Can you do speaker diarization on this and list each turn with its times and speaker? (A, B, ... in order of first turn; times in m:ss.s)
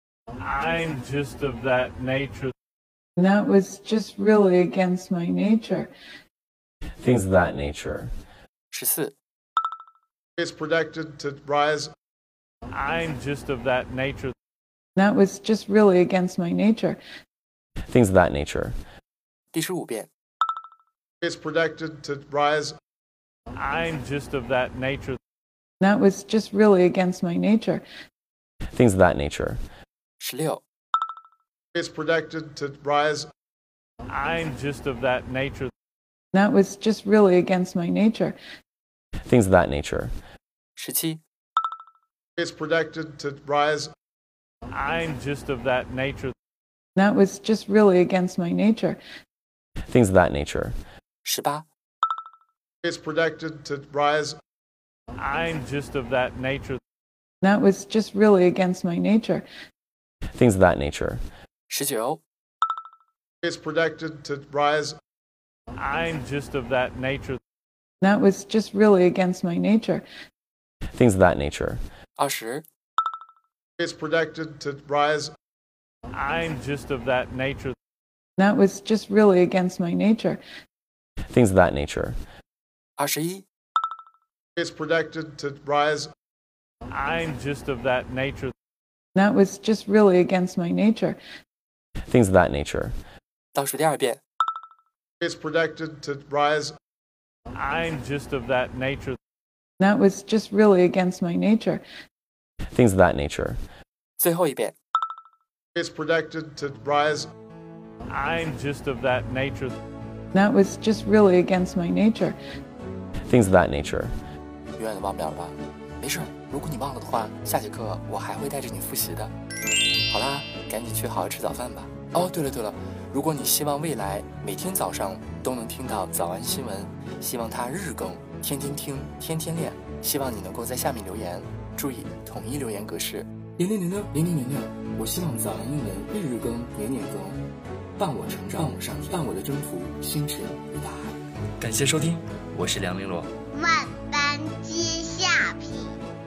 0:00.4-0:02.5 A
0:03.2-0:05.9 B
0:07.0-0:08.1 C
0:08.7-0:09.2 D
0:10.4-0:11.9 E
0:12.7-0:14.3 A
0:15.0-0:17.0 B
0:17.9-0:18.8 C
0:19.5-0:20.1 D
0:21.2-0:22.8 E
0:23.6-0:25.2 A
0:25.8-0:27.8 B
0:28.8-0:29.6 C
0:30.2-0:30.6 D
0:31.7-0:33.3 E
0:34.1-0:35.7 A
0:36.3-0:38.4 B
0:39.3-0:40.1 C
0:40.8-0:41.2 D
0:42.4-0:43.9 E
0:44.7-0:46.3 A
0:47.0-0:49.0 B
0:49.9-0:50.8 C
0:51.2-0:51.7 D
0:52.8-0:54.4 E
0:55.2-0:56.8 A
0:57.4-0:59.4 B
1:00.4-1:01.2 C
1:01.7-1:02.2 D
1:03.4-1:05.0 E
1:05.8-1:07.4 A
1:08.0-1:10.0 B
1:11.0-1:11.8 C
1:12.2-1:12.7 D
1:13.8-1:15.3 E
1:16.1-1:17.8 A
1:18.4-1:20.4 B
1:21.4-1:22.2 C
1:23.0-1:23.5 D
1:24.6-1:26.1 E
1:26.9-1:28.5 A
1:29.2-1:31.2 B
1:32.1-1:33.0 C
1:33.6-1:34.2 D
1:35.2-1:36.8 E
1:37.5-1:39.2 A
1:39.8-1:41.8 B
1:42.8-1:43.6 C
1:44.2-1:44.8 D
1:45.8-1:47.3 E
1:48.1-1:49.8 A
1:50.3-1:52.4 B
1:53.3-1:54.1 C
1:54.8-1:59.3 D
2:00.1-2:17.4 D
2:18.0-2:23.3 D
2:23.5-2:25.9 F